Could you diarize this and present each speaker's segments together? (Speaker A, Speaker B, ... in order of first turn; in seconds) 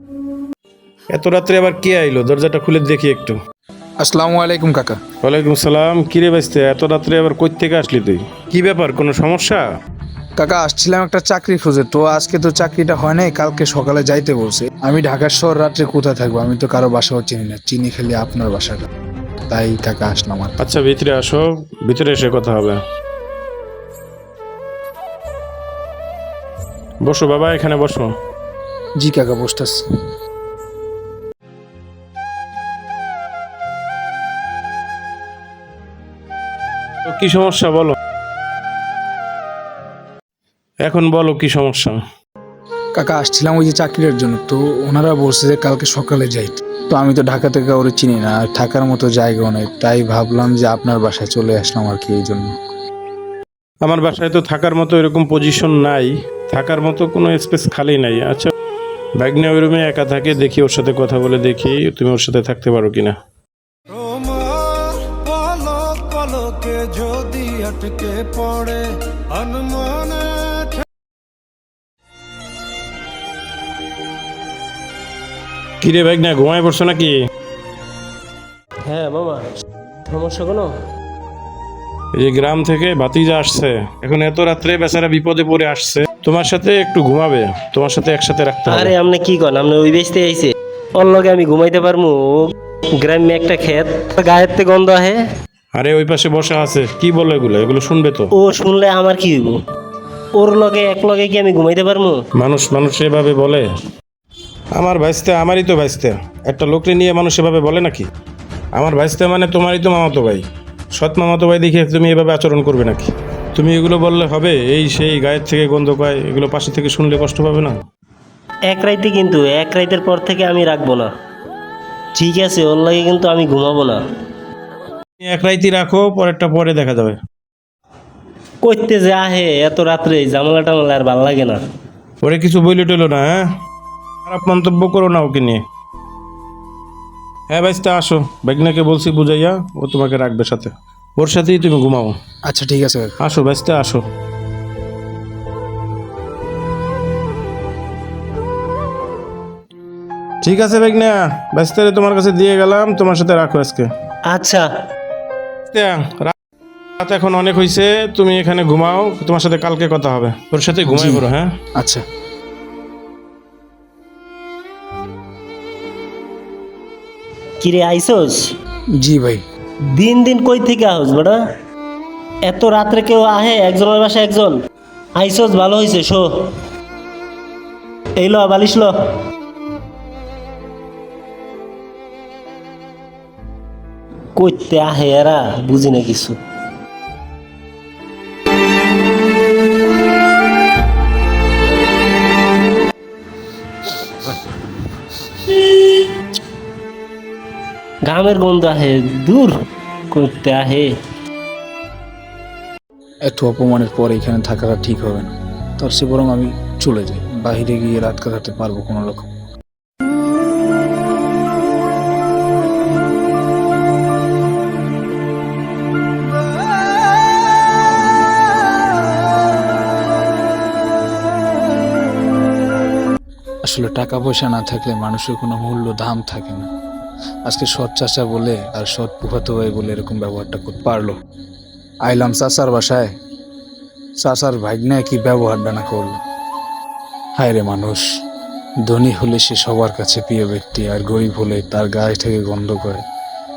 Speaker A: 1.1-3.4, 5.2-9.7, 20.6-22.8, 27.0-28.1, 37.0-38.0, 40.8-42.0, 53.8-58.5, 59.2-63.2, 75.8-77.2, 82.2-89.0, 95.7-98.3, 102.4-103.7, 104.8-108.1, 108.8-110.4, 111.0-117.8, 125.2-127.2, 132.2-133.5, 134.3-135.6, 137.5-142.2, 143.2-144.0, 150.4-153.9, 155.7-156.3, 157.0-161.5
Speaker B: 4.0-5.0, 10.4-18.9, 19.5-20.6, 29.0-29.8, 43.0-52.5, 142.5-143.2, 160.9-162.0, 169.0-169.4, 203.3-209.3, 223.7-226.7, 227.5-231.2, 232.1-233.1, 234.2-236.2, 237.4-238.0, 238.9-243.0
Speaker C: 63.9-70.8
Speaker D: 78.9-79.4, 80.1-80.7, 88.7-95.2, 98.3-99.6, 100.3-102.2, 118.7-121.1, 122.2-124.0, 128.6-131.6, 154.3-154.7, 167.6-168.5, 169.9-171.4, 172.5-174.6, 175.2-176.5, 178.2-179.0, 184.4-186.4, 198.1-199.6, 200.1-200.9